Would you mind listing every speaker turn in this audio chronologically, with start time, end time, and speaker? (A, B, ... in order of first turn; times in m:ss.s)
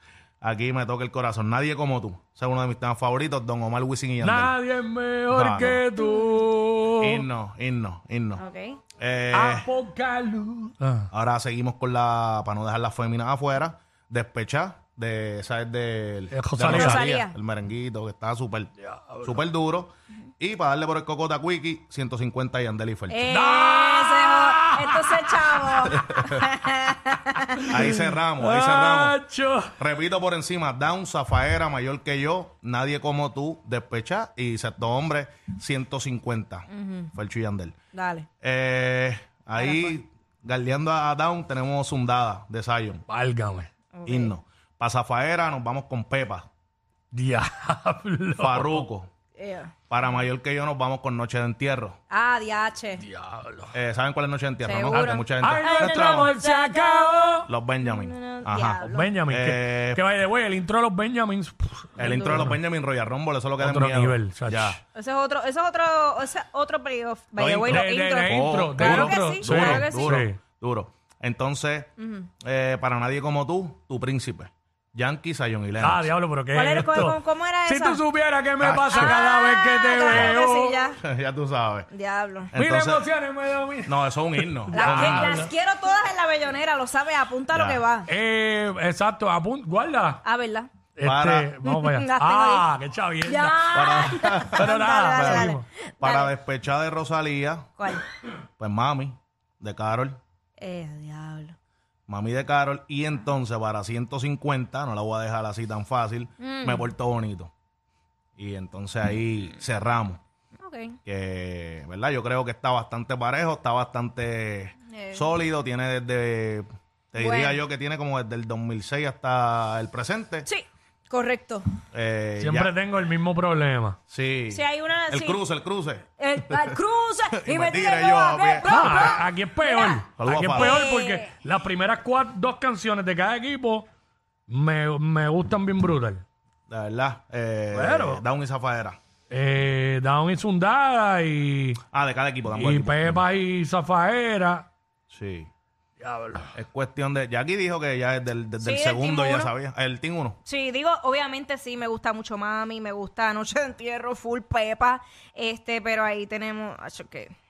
0:00.4-0:04.6 A
0:04.2-0:07.2 B
0:05.3-0:05.8 A
0:06.0-0:06.4 C
0:07.0-0:08.4 A
0:08.4-0:08.8 C
0:09.0-0:09.7 A
0:09.3-0:11.1 B
0:11.1-0:23.2 A
0:16.3-0:17.0 B
0:16.6-0:17.3 C
0:19.0-0:19.3 B
0:23.1-0:27.6 C
0:23.3-0:25.8 B
0:25.8-0:26.5 A
0:27.4-0:29.7 B
0:27.7-0:29.2 A
0:29.8-0:37.7 A
0:36.7-0:37.1 C
0:37.9-0:38.3 C
0:38.4-0:43.0 A
0:39.6-0:39.9 C
0:43.1-0:43.7 B
0:43.9-0:44.3 C
0:44.0-0:46.5 A
0:47.1-0:48.8 B
0:48.4-0:49.1 A
0:49.4-0:49.7 C
0:49.9-0:52.0 A
0:52.1-0:53.0 C
0:53.0-0:53.7 B
0:53.7-0:56.3 A
0:54.6-0:59.2 C
0:54.9-0:57.4 B
0:57.4-1:00.0 A
0:58.8-1:02.6 B
1:02.0-1:04.8 A
1:02.0-1:02.4 C
1:03.6-1:04.8 B
1:04.9-1:10.2 C
1:07.4-1:11.9 A
1:07.7-1:10.4 B
1:12.0-1:12.3 C
1:12.4-1:16.1 A
1:15.8-1:20.8 B
1:16.5-1:18.0 C
1:18.6-1:19.2 A
1:18.9-1:21.0 C
1:20.1-1:20.4 A
1:21.0-1:21.9 A
1:21.9-1:22.5 C
1:22.5-1:23.1 A
1:22.5-1:25.5 B
1:23.8-1:25.4 A
1:24.7-1:28.1 C
1:27.5-1:27.8 A
1:28.1-1:30.2 B
1:30.2-1:30.7 C
1:31.0-1:34.0 B
1:31.0-1:31.5 A
1:31.6-1:32.6 C
1:33.2-1:36.3 C
1:33.7-1:37.7 A
1:34.5-1:35.6 B
1:37.8-1:38.0 C
1:38.6-1:40.2 A
1:40.6-1:41.6 C
1:42.1-1:47.5 A
1:46.4-1:46.9 C
1:48.4-1:50.2 A
1:50.6-1:51.0 C
1:51.0-2:00.5 A
1:54.9-1:55.3 C
1:57.2-1:57.6 C
2:00.4-2:01.7 C
2:01.9-2:02.8 A
2:02.4-2:04.0 B
2:04.1-2:06.8 A
2:04.5-2:05.4 C
2:06.2-2:11.3 C
2:07.3-2:09.0 A
2:08.6-2:13.9 B
2:10.2-2:10.8 A
2:14.5-2:16.2 B
2:16.7-2:19.0 A
2:17.7-2:18.2 B
2:19.3-2:21.8 B
2:21.9-2:23.2 A
2:22.5-2:24.7 B
2:25.1-2:25.5 A
2:26.0-2:26.5 B
2:26.5-2:30.4 A
2:28.6-2:29.5 C
2:30.4-2:37.3 C